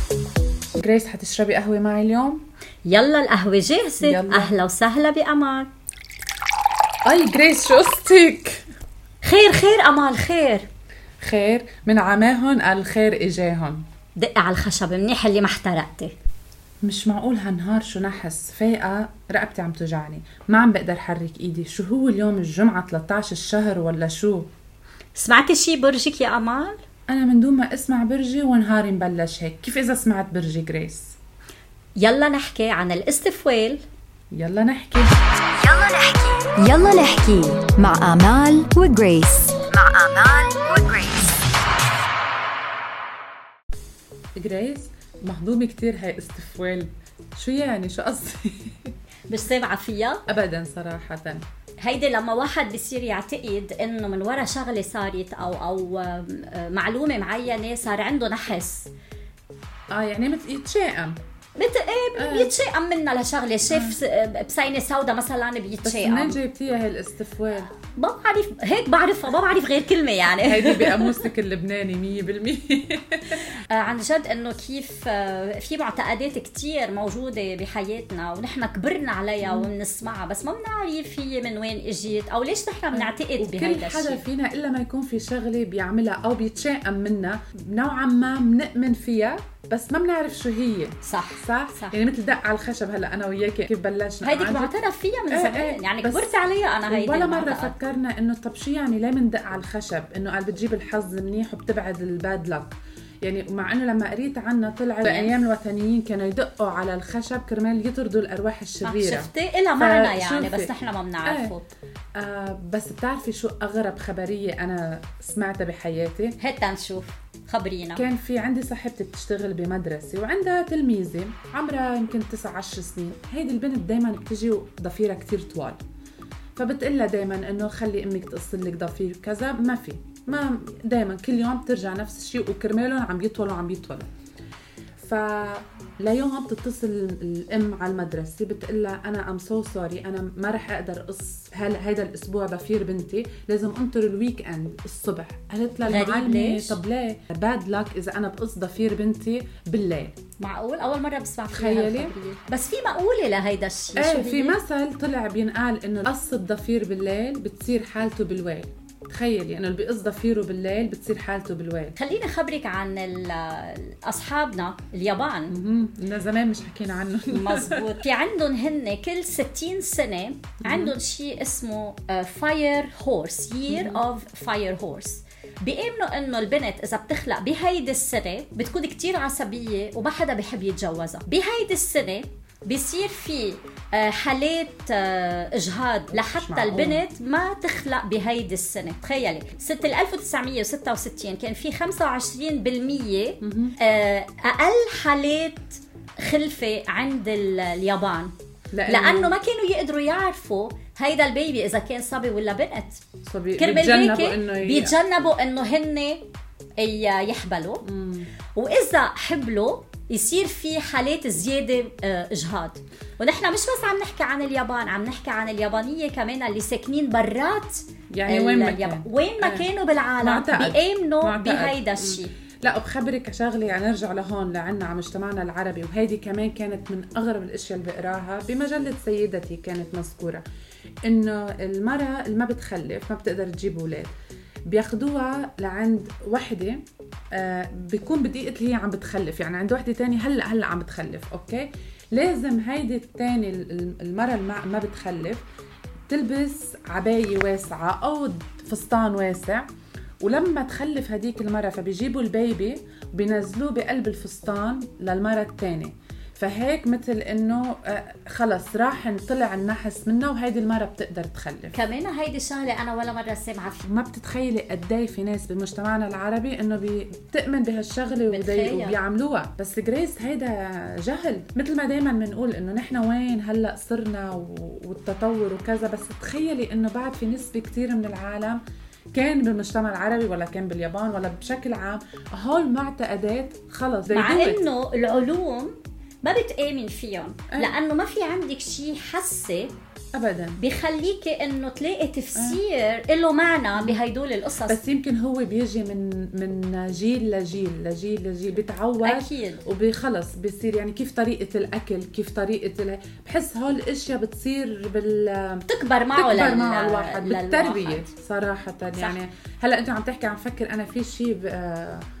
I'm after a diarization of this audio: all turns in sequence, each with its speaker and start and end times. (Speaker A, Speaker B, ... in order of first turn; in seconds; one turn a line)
Speaker A: 0.8-2.4
Speaker B: 2.9-5.7
Speaker A: 4.0-4.5
Speaker A: 7.0-8.6
Speaker B: 9.2-10.7
Speaker A: 11.2-13.8
Speaker B: 14.2-16.1
Speaker A: 16.8-24.5
Speaker B: 25.1-26.8
Speaker A: 27.1-31.1
Speaker B: 32.0-33.8
Speaker A: 34.3-35.2
Speaker C: 35.6-41.3
Speaker A: 44.4-48.9
Speaker B: 49.3-50.2
Speaker A: 50.3-51.4
Speaker B: 51.8-58.9
Speaker A: 59.9-61.2
Speaker B: 61.6-66.4
Speaker A: 62.1-62.5
Speaker A: 63.7-64.0
Speaker A: 65.8-67.7
Speaker B: 67.7-71.2
Speaker A: 70.4-73.4
Speaker B: 73.7-84.2
Speaker A: 79.4-79.7
Speaker A: 82.9-94.7
Speaker B: 91.0-92.0
Speaker B: 94.2-97.7
Speaker A: 95.3-96.3
Speaker A: 96.8-110.7
Speaker B: 105.0-105.3
Speaker B: 108.8-111.7
Speaker A: 111.2-111.6
Speaker A: 112.2-116.4
Speaker B: 116.4-118.0
Speaker A: 118.0-125.8
Speaker A: 126.5-134.1
Speaker A: 135.0-150.1
Speaker B: 145.8-146.8
Speaker B: 150.4-154.6
Speaker A: 151.5-152.1
Speaker A: 153.9-162.0
Speaker B: 161.9-165.5
Speaker A: 165.5-167.9
Speaker B: 167.3-198.3
Speaker A: 170.6-170.9
Speaker A: 173.7-174.0
Speaker A: 186.1-187.0
Speaker A: 193.4-193.8
Speaker A: 198.7-199.3
Speaker B: 198.9-203.0
Speaker A: 203.2-205.0
Speaker B: 203.6-206.2
Speaker B: 206.8-207.8
Speaker A: 207.8-208.3
Speaker B: 208.5-222.3
Speaker A: 218.1-219.7
Speaker A: 220.2-230.4
Speaker A: 231.0-234.1
Speaker A: 234.7-245.4
Speaker A: 246.1-249.7
Speaker A: 250.2-261.8
Speaker B: 261.7-263.8
Speaker A: 263.8-278.6
Speaker B: 268.3-268.9
Speaker A: 279.1-284.6
Speaker B: 284.1-289.7
Speaker A: 290.1-290.6
Speaker B: 290.6-294.8
Speaker A: 292.3-292.6
Speaker A: 294.7-312.0
Speaker B: 299.0-299.6
Speaker B: 305.7-308.1